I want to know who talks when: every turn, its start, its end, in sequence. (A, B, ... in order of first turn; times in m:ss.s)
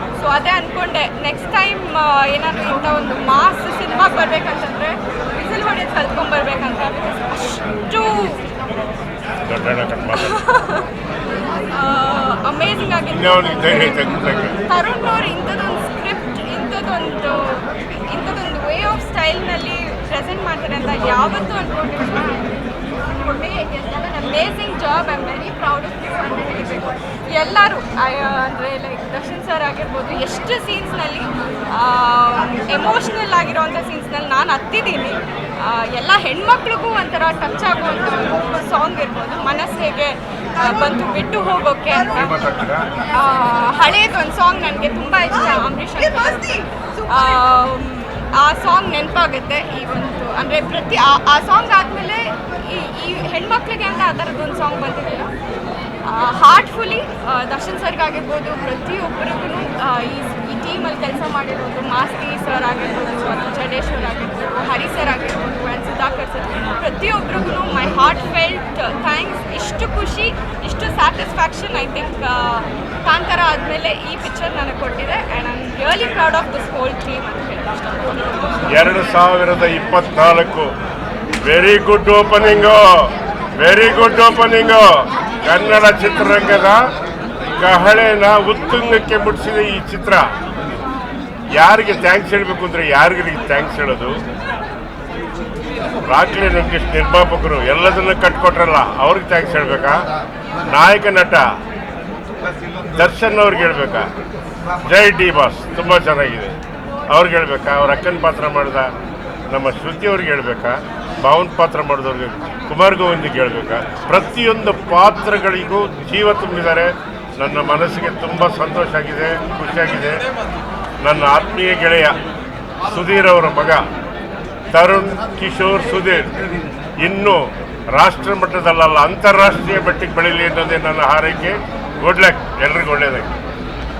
0:00.2-0:08.4 A
0:09.5-0:10.4 B
0:10.2-0:10.9 A
0:11.7-0:42.4 A
0:13.1-0:14.5 B
0:42.2-0:42.9 B
0:43.1-0:55.3 A
0:56.0-1:18.4 A
1:18.7-1:20.7 B
1:21.4-1:24.9 B
1:25.4-1:26.8 B
1:27.5-1:30.2 B
1:31.5-1:34.1 B
1:36.0-1:40.0 B
1:40.7-1:41.4 B
1:42.9-1:44.0 B
1:44.8-1:46.5 B
1:47.1-1:48.9 B
1:49.5-2:00.2 B
2:01.0-2:02.1 B
2:02.9-2:03.8 B
2:04.7-2:06.3 B
2:07.0-2:07.4 B
2:08.0-2:13.3 B